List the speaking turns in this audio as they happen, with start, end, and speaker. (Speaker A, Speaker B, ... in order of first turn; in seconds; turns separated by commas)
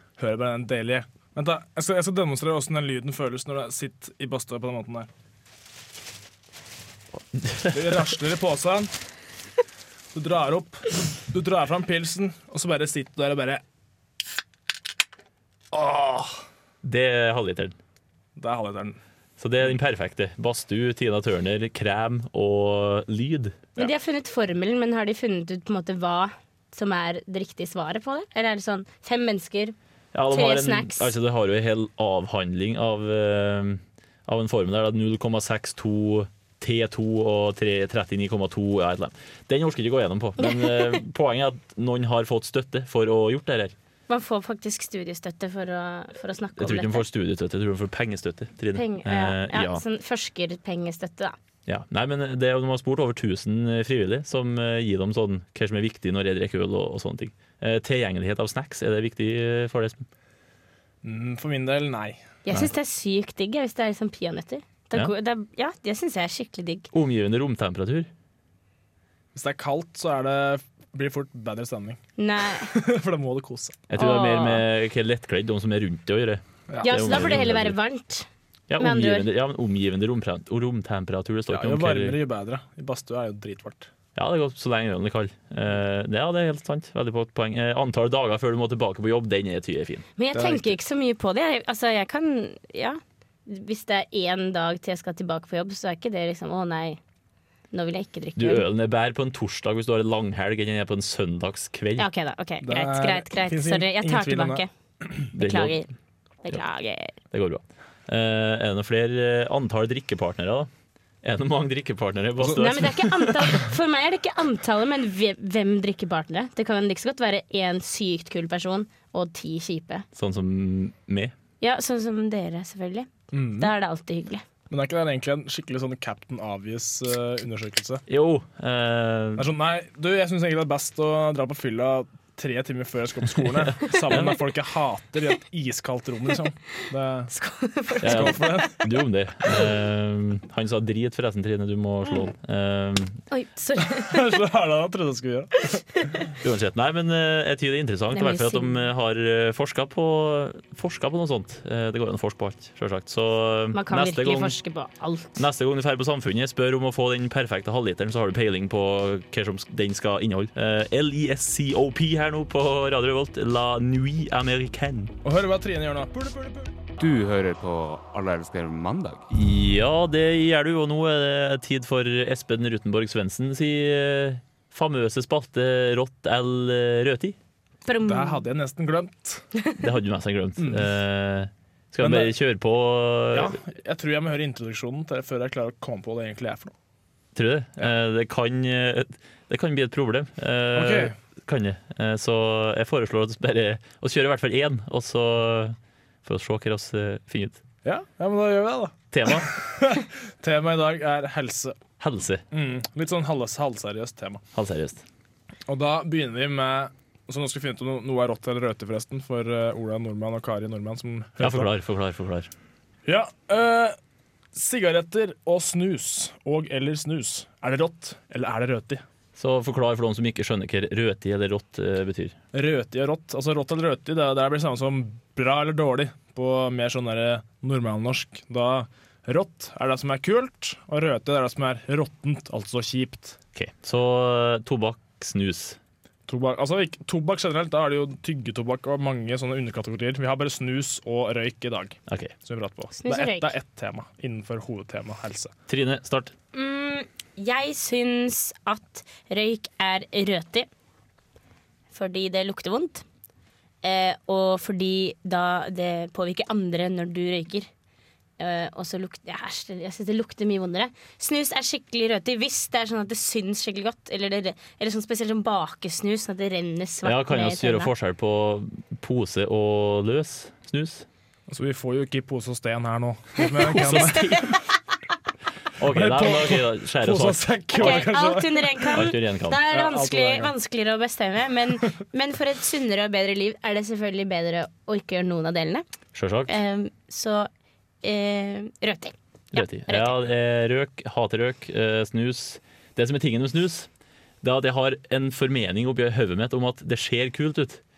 Speaker A: 0.2-5.1, Speaker B: 7.4-8.0, Speaker A: 7.7-8.9, Speaker A: 10.1-13.6, Speaker A: 15.7-16.4, Speaker B: 16.8-17.8, Speaker A: 18.4-19.0, Speaker B: 19.4-23.6, Speaker C: 23.8-29.8, Speaker B: 30.1-43.7, Speaker C: 30.3-31.1, Speaker C: 40.4-41.0, Speaker C: 44.1-47.0, Speaker B: 46.6-49.8, Speaker C: 48.7-51.4, Speaker B: 51.7-60.1, Speaker A: 61.0-62.2, Speaker C: 62.5-66.9, Speaker B: 66.9-68.1, Speaker A: 69.3-73.8, Speaker C: 72.2-72.7, Speaker B: 73.9-77.8, Speaker C: 74.0-74.6, Speaker A: 76.7-77.4, Speaker C: 76.8-78.3, Speaker B: 78.7-82.2, Speaker C: 78.8-79.3, Speaker A: 81.5-83.9, Speaker B: 84.2-90.1, Speaker C: 90.2-97.0, Speaker A: 90.3-90.7, Speaker C: 97.7-98.6, Speaker B: 98.4-102.1, Speaker C: 102.0-104.7, Speaker A: 102.6-105.3, Speaker C: 105.3-105.9, Speaker B: 105.3-105.8, Speaker C: 106.4-107.1, Speaker B: 107.3-110.7, Speaker B: 111.2-113.5, Speaker C: 112.5-120.1, Speaker B: 120.2-121.3, Speaker C: 121.6-124.4, Speaker A: 123.3-123.7, Speaker A: 124.7-128.0, Speaker B: 128.1-129.5, Speaker A: 129.4-137.3, Speaker B: 133.9-134.4, Speaker C: 137.3-138.4, Speaker A: 138.0-138.8, Speaker B: 138.0-143.2, Speaker C: 143.3-144.4, Speaker A: 143.8-146.3, Speaker C: 145.7-146.2, Speaker B: 146.4-154.6, Speaker C: 148.1-148.8, Speaker C: 153.7-155.4, Speaker B: 155.4-165.1, Speaker A: 165.2-166.7, Speaker D: 167.0-169.2, Speaker B: 169.3-177.4, Speaker C: 177.9-178.4, Speaker A: 178.1-179.4, Speaker B: 179.8-183.6, Speaker A: 180.6-180.9, Speaker A: 182.0-182.3, Speaker A: 183.3-186.7, Speaker B: 187.3-197.6, Speaker A: 190.7-191.1, Speaker A: 197.8-201.8, Speaker B: 199.1-199.6, Speaker B: 202.0-202.4, Speaker A: 202.5-204.4, Speaker B: 204.6-205.0, Speaker A: 205.7-211.7, Speaker B: 211.4-212.5, Speaker A: 213.1-214.0, Speaker A: 214.5-219.0, Speaker B: 219.4-222.4, Speaker A: 222.5-233.4, Speaker B: 233.6-235.8, Speaker A: 236.3-245.5, Speaker B: 242.1-242.3, Speaker C: 243.0-243.5, Speaker B: 245.7-246.3, Speaker C: 246.5-250.7, Speaker C: 251.9-253.1, Speaker C: 253.8-257.7, Speaker C: 258.4-267.9, Speaker B: 267.0-271.1, Speaker A: 271.5-274.3, Speaker C: 273.4-274.6, Speaker B: 273.7-274.5, Speaker B: 275.8-278.1, Speaker A: 275.8-279.1, Speaker C: 277.8-285.9, Speaker B: 278.9-279.6, Speaker A: 279.7-280.5, Speaker B: 286.1-286.5, Speaker C: 286.5-287.5, Speaker C: 288.0-290.2, Speaker B: 289.5-293.9, Speaker B: 294.4-297.8